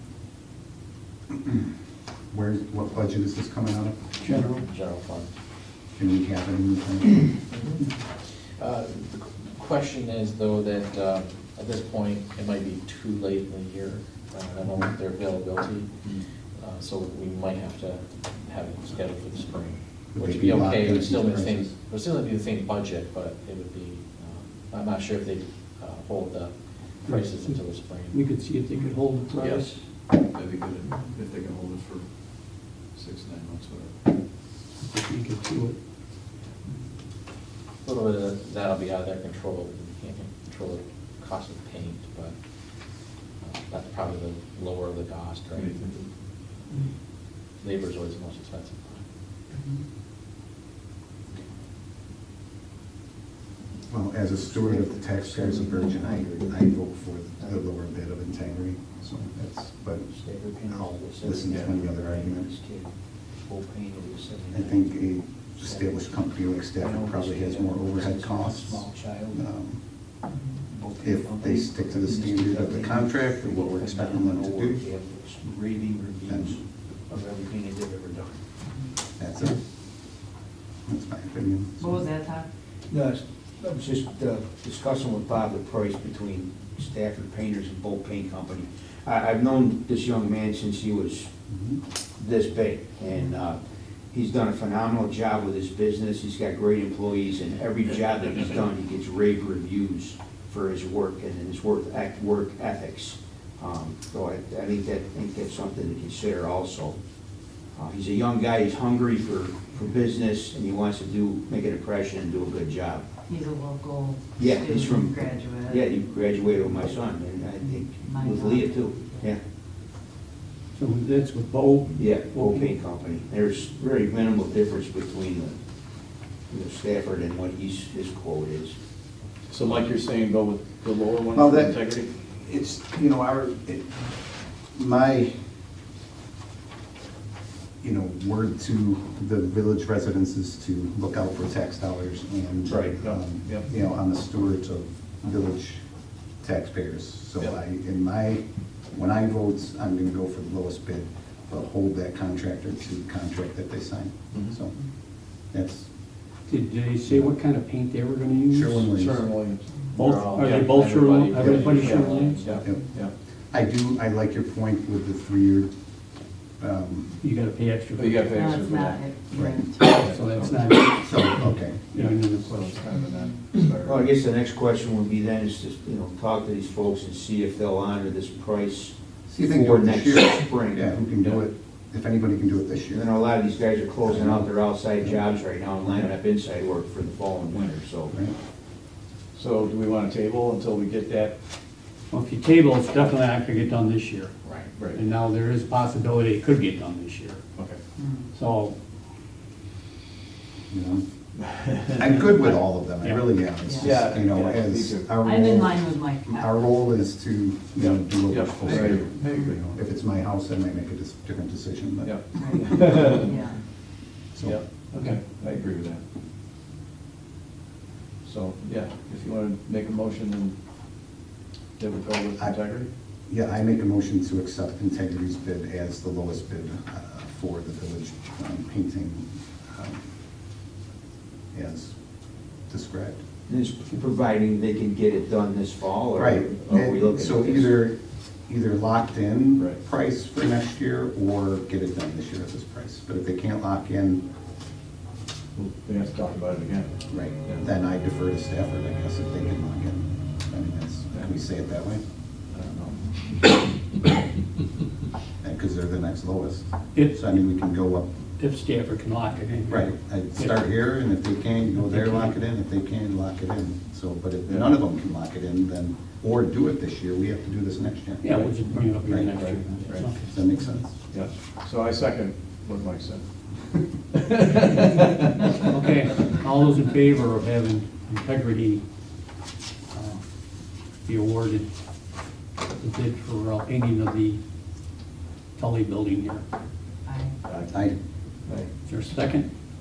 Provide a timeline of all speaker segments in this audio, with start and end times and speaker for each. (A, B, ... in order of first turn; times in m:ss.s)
0:01.3-0:01.7 A
0:02.3-0:04.0 A
0:04.2-0:04.7 B
0:04.2-0:05.3 C
0:06.0-0:07.3 A
0:07.5-0:28.2 C
0:20.1-0:21.7 A
0:27.1-0:29.8 B
0:29.4-0:29.7 C
0:30.3-0:34.0 D
0:30.9-0:31.2 E
0:34.8-0:35.8 B
0:37.8-0:45.8 C
0:45.5-0:46.1 D
0:47.5-0:49.0 C
0:53.9-1:00.1 A
0:54.4-0:56.7 F
0:57.4-0:57.7 F
1:00.1-1:06.2 F
1:00.7-1:02.5 A
1:04.5-1:09.8 A
1:06.8-1:09.4 F
1:10.3-1:10.6 E
1:10.7-1:18.4 F
1:11.0-1:14.8 A
1:16.3-1:16.6 A
1:19.2-1:19.6 A
1:20.9-1:22.1 A
1:21.8-1:22.5 E
1:22.9-1:31.3 F
1:31.5-1:31.8 A
1:32.2-1:33.6 F
1:34.1-1:47.0 F
1:47.7-1:53.1 F
1:53.3-1:55.9 E
1:54.4-1:59.4 F
1:57.6-1:59.3 E
2:00.8-2:02.7 B
2:02.0-2:05.6 F
2:06.5-2:08.8 F
2:09.5-2:12.1 D
2:11.3-2:11.8 A
2:12.3-2:14.0 A
2:14.7-2:15.3 A
2:17.8-2:25.8 A
2:22.7-2:23.0 F
2:22.9-2:23.7 D
2:26.4-2:34.8 A
2:34.3-2:34.6 D
2:35.5-2:35.9 A
2:36.5-2:38.9 B
2:37.1-2:37.3 A
2:38.5-2:39.3 A
2:38.9-2:40.6 D
2:39.9-2:42.6 C
2:40.0-2:42.4 B
2:41.4-2:42.9 A
2:41.4-2:43.1 D
2:43.5-2:45.7 A
2:46.6-2:47.1 A
2:47.2-2:48.2 B
2:48.0-2:49.1 D
2:48.3-2:49.9 E
2:49.3-2:49.8 A
2:49.5-2:52.8 B
2:49.9-2:50.8 D
2:50.9-2:51.8 A
2:51.9-2:54.1 D
2:53.0-2:53.4 E
2:53.8-3:01.0 F
2:59.3-3:03.1 A
3:02.9-3:08.2 F
3:04.0-3:05.2 A
3:09.3-3:11.4 D
3:12.1-3:14.4 B
3:14.4-3:14.7 C
3:14.7-3:15.0 D
3:14.9-3:17.4 B
3:17.6-3:17.8 D
3:18.0-3:18.3 E
3:18.3-3:18.8 B
3:20.7-3:21.0 A
3:21.4-3:22.2 D
3:22.0-3:32.8 A
3:23.0-3:23.3 B
3:23.8-3:25.1 D
3:25.2-3:26.9 E
3:27.8-3:29.8 D
3:29.2-3:29.5 E
3:32.0-3:33.4 D
3:32.4-3:33.6 E
3:34.4-3:34.6 A
3:34.4-3:36.0 D
3:38.2-3:40.6 D
3:41.8-3:42.9 D
3:43.3-3:50.0 A
3:51.5-3:52.0 A
3:52.7-3:53.2 A
3:53.5-3:57.8 F
3:56.2-4:04.2 A
4:05.6-4:07.6 D
4:07.1-4:12.0 A
4:11.1-4:11.4 D
4:12.5-4:13.6 D
4:15.4-4:18.1 A
4:18.4-4:20.6 B
4:19.7-4:31.0 A
4:21.8-4:22.3 B
4:24.5-4:24.7 D
4:28.2-4:30.8 B
4:29.4-4:30.0 D
4:31.1-4:36.3 D
4:35.7-4:38.8 B
4:39.9-4:40.2 B
4:41.0-4:41.7 B
4:42.8-4:44.4 B
4:45.6-4:46.4 B
4:47.1-4:47.4 E
4:47.4-4:47.9 D
4:48.8-4:49.5 B